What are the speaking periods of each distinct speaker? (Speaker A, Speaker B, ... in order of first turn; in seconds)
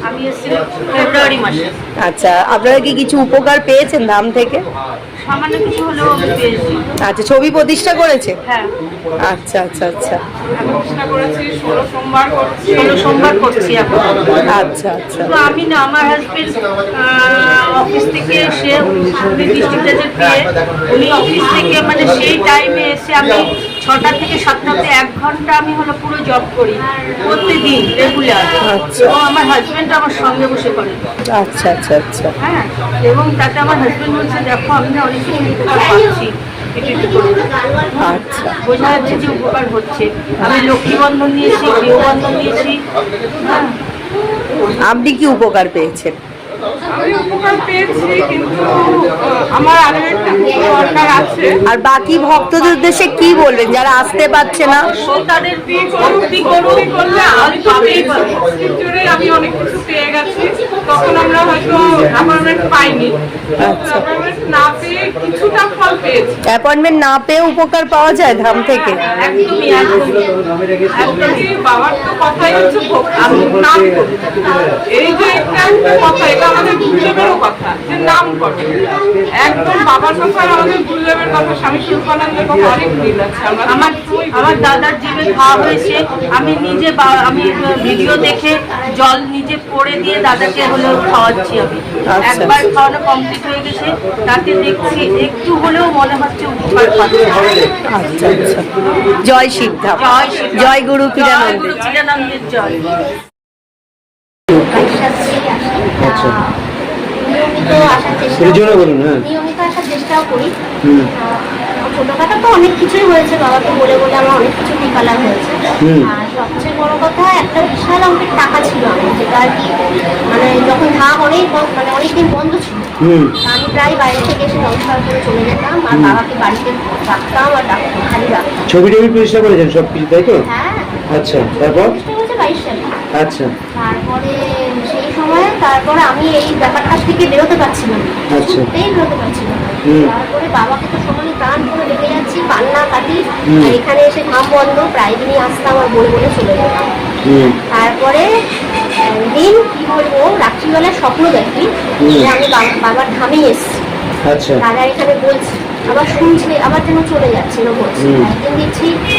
Speaker A: 0.1-1.7, 5.2-6.8, 10.6-10.8, 12.8-14.4, 15.1-31.0, 32.4-37.4, 38.1-42.8, 43.4-43.7, 54.6-58.4, 69.0-70.3, 70.9-71.5, 73.2-73.5, 83.7-97.5, 99.9-102.9
Speaker B: 2.0-4.6, 7.0-8.4, 9.2-10.2, 14.5-15.3, 28.6-29.1, 31.4-32.3, 38.0-38.6, 44.8-46.1, 51.7-54.9, 63.6-64.0, 66.5-69.0, 92.1-92.5, 97.9-98.6, 99.2-101.7
Speaker C: 10.6-12.8, 46.9-51.6, 55.1-66.4, 71.2-74.3, 74.9-84.7
Speaker D: 37.4-39.0, 104.5-106.6, 107.2-110.5, 111.1-119.7, 120.3-122.9, 123.4-128.6, 130.4-130.9, 131.6-133.0, 133.7-146.9, 147.7-148.2, 149.1-153.8, 154.6-158.9
Speaker E: 106.0-106.3, 108.4-109.1, 123.0-123.3, 128.7-130.4, 131.1-131.9, 133.2-133.5, 138.3-138.7, 154.3-154.6, 158.0-158.3